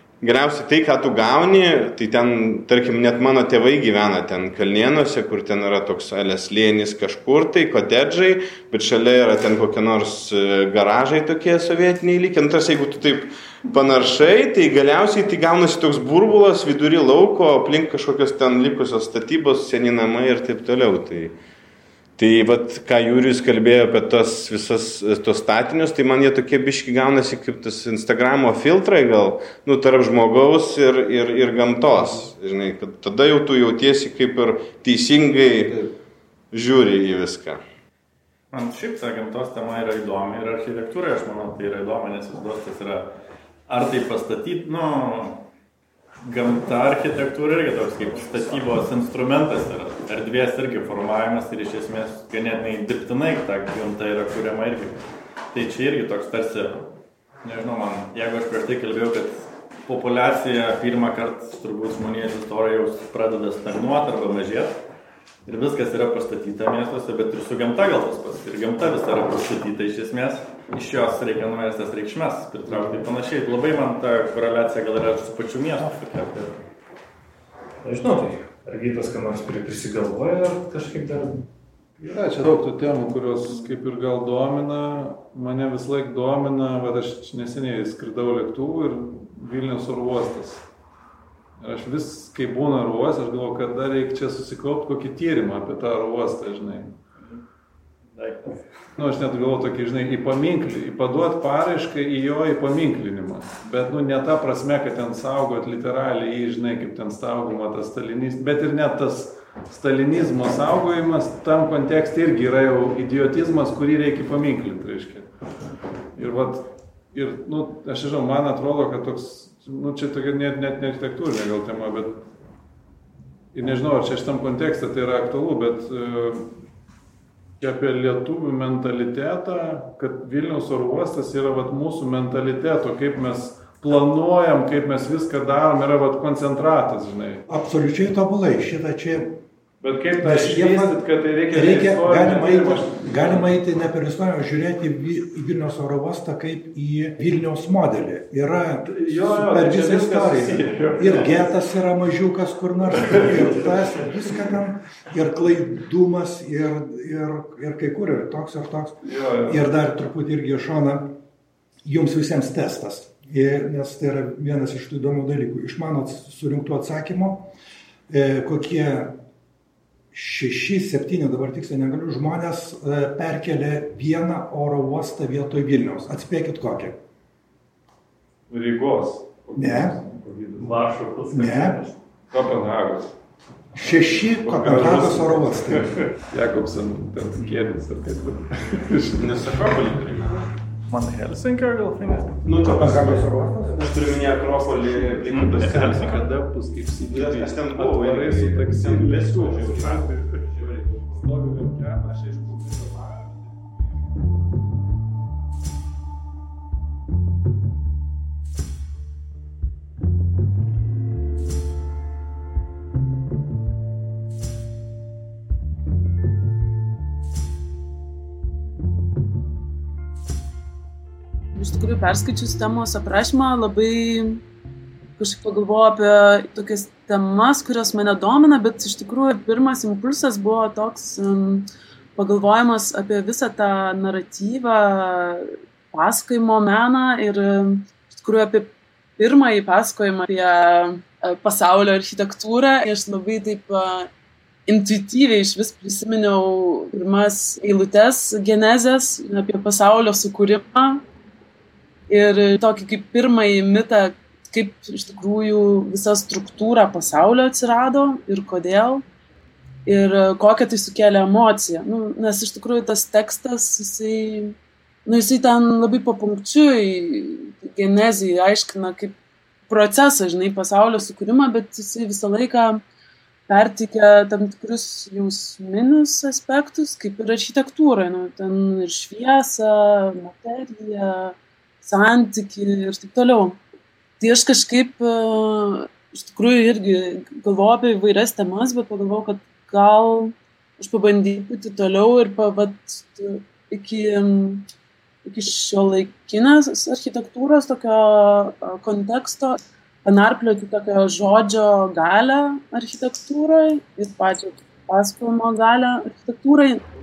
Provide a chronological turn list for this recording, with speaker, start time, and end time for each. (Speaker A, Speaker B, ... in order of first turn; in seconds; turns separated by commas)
Speaker A: 0.2-21.4, Speaker A: 22.2-35.9, Speaker A: 36.5-37.6, Speaker B: 38.5-43.1, Speaker B: 43.7-45.5, Speaker B: 46.2-56.9, Speaker B: 57.4-64.8, Speaker B: 65.5-76.6, Speaker C: 77.8-81.5, Speaker D: 82.0-90.7, Speaker D: 91.6-97.0, Speaker B: 97.2-97.4, Speaker B: 98.1-98.8, Speaker D: 99.0-115.3, Speaker D: 116.2-122.2, Speaker D: 123.5-126.6, Speaker D: 127.6-137.4, Speaker E: 137.5-139.4, Speaker D: 139.8-143.5, Speaker E: 140.2-161.2, Speaker D: 148.8-151.5, Speaker D: 153.0-153.7, Speaker D: 159.0-159.7, Speaker E: 161.8-167.5, Speaker E: 168.1-169.2, Speaker E: 170.1-177.0, Speaker D: 178.5-181.0, Speaker E: 179.6-180.0, Speaker B: 180.6-181.9, Speaker E: 181.3-181.8, Speaker D: 182.3-183.1, Speaker E: 183.8-186.0, Speaker D: 183.8-189.6, Speaker A: 189.2-190.4, Speaker B: 190.9-192.4, Speaker A: 192.5-193.0, Speaker E: 192.7-193.9, Speaker A: 193.8-196.1, Speaker D: 193.9-203.9, Speaker B: 195.3-196.2, Speaker A: 197.1-200.0, Speaker F: 221.5-224.4, Speaker F: 225.2-244.1, Speaker F: 244.7-251.0, Speaker F: 252.1-259.0, Speaker F: 259.9-269.2, Speaker F: 269.7-272.8, Speaker F: 273.5-283.6, Speaker F: 284.2-294.7, Speaker F: 295.2-306.8